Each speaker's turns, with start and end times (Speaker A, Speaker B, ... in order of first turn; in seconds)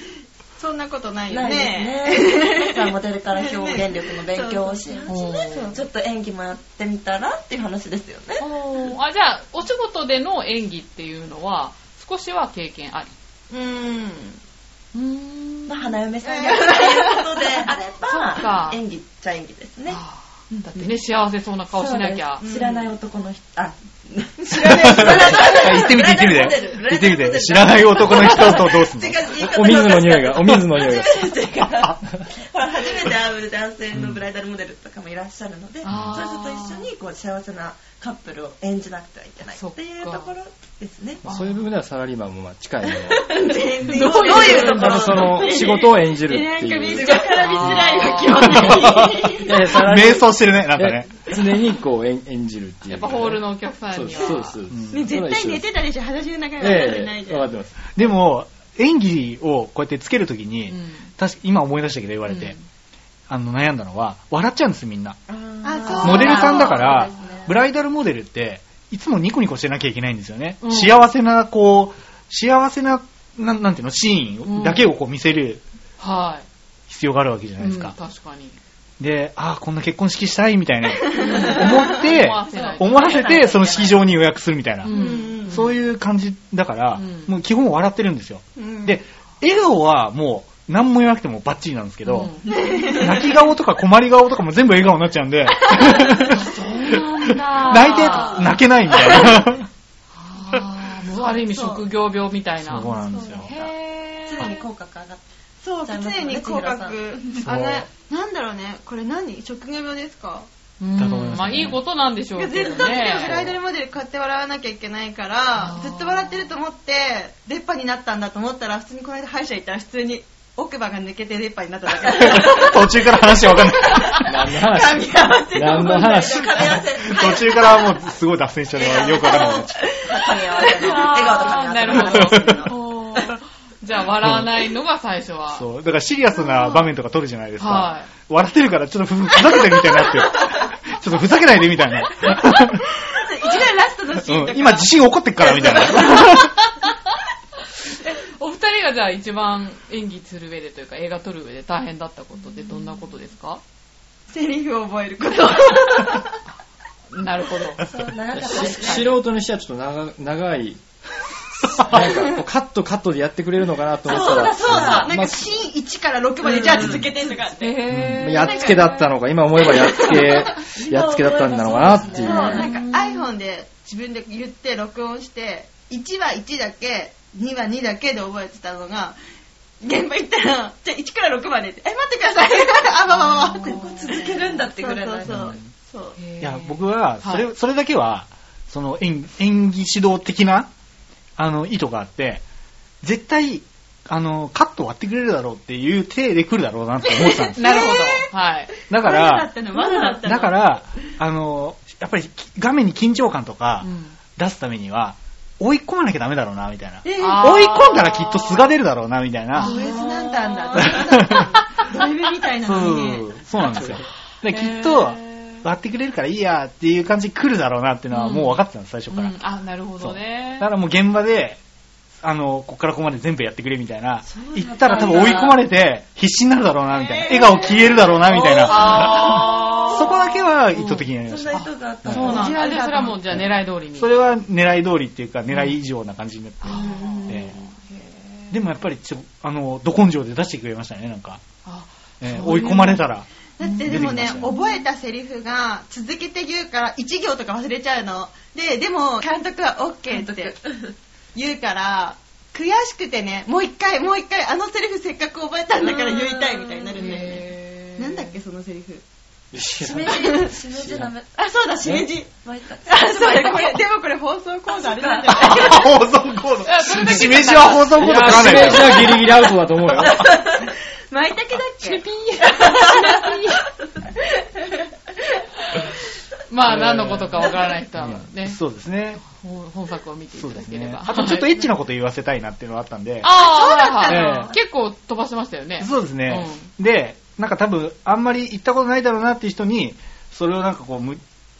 Speaker A: 0.6-5.7, 13.5-14.4, 16.2-17.6, 22.4-22.9, 24.4-25.9, 43.3-49.6, 54.9-57.5, 65.6-67.1, 81.1-81.6, 84.9-85.7, 88.6-89.0, 92.5-93.3, 101.5-101.8, 105.6-110.5, 112.3-127.9, 128.7-132.7, 143.0-146.4, 154.3-156.3, 164.1-169.0, 169.7-170.1, 172.1-179.2, 179.8-186.2, 197.2-198.3, 198.9-200.8, 207.0-207.9, 209.6-213.3, 227.0-228.7, 232.2-233.2, 243.6-250.6, 251.3-259.0, 260.2-260.5, 261.4-262.3, 262.9-266.1, 270.2-273.6, 283.3-284.5
Speaker B: 1.3-8.4, 15.7-20.0, 20.5-20.9, 21.7-41.2, 43.1-45.7, 46.9-47.9, 65.3-67.6, 82.5-84.1, 102.8-103.7, 104.2-105.2, 105.8-107.2, 125.5-127.9, 128.8-132.7, 157.8-159.1, 164.0-165.2, 166.4-167.4, 168.5-168.8, 170.0-172.7, 183.1-185.6, 199.8-200.1, 209.6-210.9, 224.2-225.6, 227.1-230.0, 231.2-232.9, 236.7-237.6, 250.1-250.9, 255.8-257.1, 259.8-263.8, 264.7-265.8, 270.0-270.6, 272.6-273.1
Speaker C: 5.1-5.7, 8.4-13.1, 14.9-15.9, 18.1-18.8, 19.9-22.4, 35.8-36.9, 39.5-40.3, 41.2-41.6, 43.9-45.2, 47.4-48.7, 52.9-54.6, 60.7-61.1, 62.2-62.6, 66.0-66.7, 70.6-71.0, 74.4-74.9, 76.0-76.5, 77.6-78.5, 81.2-83.5, 84.8-85.8, 87.0-87.3, 92.0-92.5, 96.3-98.5, 100.2-104.6, 110.8-113.3, 115.6-116.5, 130.8-135.7, 137.6-138.1, 147.9-153.6, 157.1-157.8, 167.6-168.8, 172.2-173.3, 183.3-184.4, 186.2-187.5, 197.6-198.7, 203.8-204.2, 207.2-208.6, 209.5-210.0, 214.6-214.8, 218.1-220.7, 228.6-230.1, 230.7-234.1, 235.5-235.8, 236.6-238.6, 241.6-243.0, 256.9-258.3, 266.6-269.0, 271.8-272.6, 276.5-278.6, 279.2-281.6, 283.2-286.7
Speaker D: 24.8-29.4, 33.9-34.2, 35.9-36.2, 48.5-51.1, 54.7-55.1, 57.9-62.5, 63.3-65.2, 66.0-75.6, 76.9-77.9, 79.0-92.3, 93.0-99.7, 102.6-103.5, 107.4-107.8, 111.0-111.8, 122.1-124.4, 127.0-129.8, 132.0-132.5, 134.2-134.5, 135.5-142.9, 144.2-146.5, 167.9-168.2, 185.2-185.7, 186.4-190.7, 191.4-192.4, 193.0-197.6, 198.9-199.5, 200.2-209.7, 210.8-211.5, 212.6-219.3, 220.0-221.6, 222.2-232.5, 233.3-237.5, 238.5-241.4, 242.2-243.3, 243.8-244.5, 265.4-269.3, 276.6-277.3, 278.0-279.2, 280.3-283.3, 284.1-284.5, 285.8-291.2
Speaker E: 29.3-31.3, 41.2-43.3, 44.3-47.4, 48.8-55.7, 56.6-57.8, 124.2-126.8, 158.3-160.8, 161.6-165.6, 166.7-167.1, 168.2-172.6, 213.8-214.0, 259.5-261.1, 267.9-270.2